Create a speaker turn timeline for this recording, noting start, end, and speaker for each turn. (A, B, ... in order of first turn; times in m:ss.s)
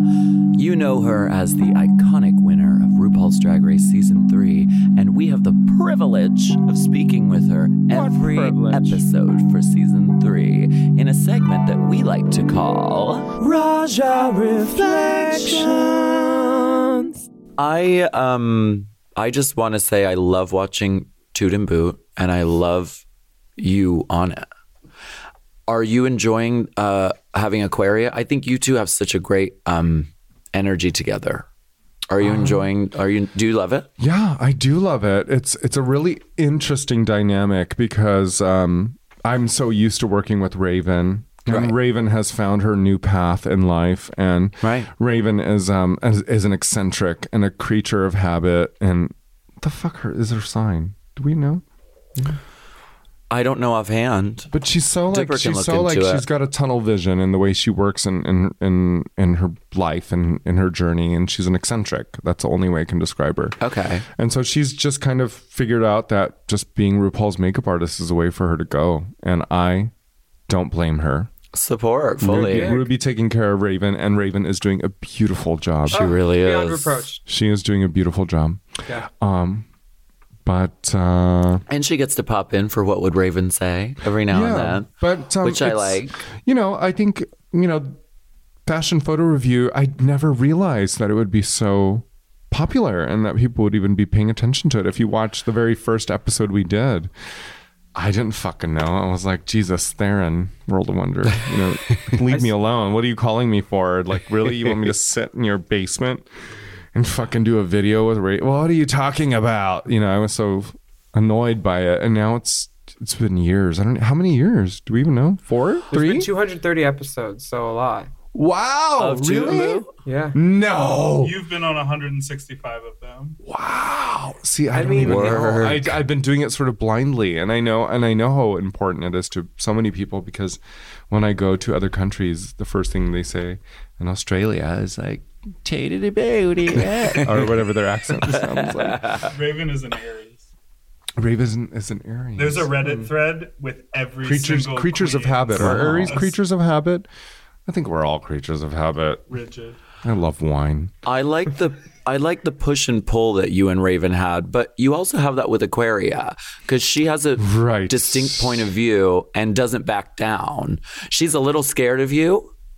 0:00.5-0:16.5 A
0:07.9-0:09.0 B
0:14.4-0:17.2 B
0:17.6-0:23.0 A
0:23.6-0:24.5 A
0:25.7-0:31.5 A
0:32.1-0:33.9 A
0:32.2-0:32.6 C
0:34.0-0:51.6 C
0:41.5-0:41.7 A
0:44.6-0:44.9 A
0:53.3-0:54.5 A
0:54.5-1:03.6 C
0:55.1-0:56.2 A
1:03.6-1:04.0 A
1:04.2-1:09.9 C
1:10.5-1:11.3 C
1:11.5-1:12.8 A
1:12.2-1:16.2 C
1:12.4-1:12.9 B
1:15.9-1:17.0 A
1:15.9-1:17.2 B
1:17.2-1:19.6 C
1:20.4-1:21.6 C
1:21.7-1:26.2 A
1:24.2-1:28.0 C
1:28.6-1:37.1 C
1:37.9-1:46.3 C
1:46.9-1:56.3 C
1:55.9-1:58.1 B
1:58.3-2:01.4 C
1:59.0-1:59.9 A
2:00.0-2:00.4 B
2:01.2-2:03.4 D
2:03.4-2:15.9 C
2:04.7-2:05.6 B
2:04.8-2:06.0 A
2:15.7-2:17.5 A
2:16.8-2:19.3 C
2:18.3-2:19.2 A
2:19.2-2:20.5 D
2:21.2-2:23.1 C
2:22.4-2:26.3 D
2:24.2-2:27.1 C
2:25.6-2:26.2 A
2:27.7-2:29.3 C
2:29.3-2:29.8 D
2:30.0-2:30.9 C
2:31.0-2:42.5 A
2:37.4-2:38.7 C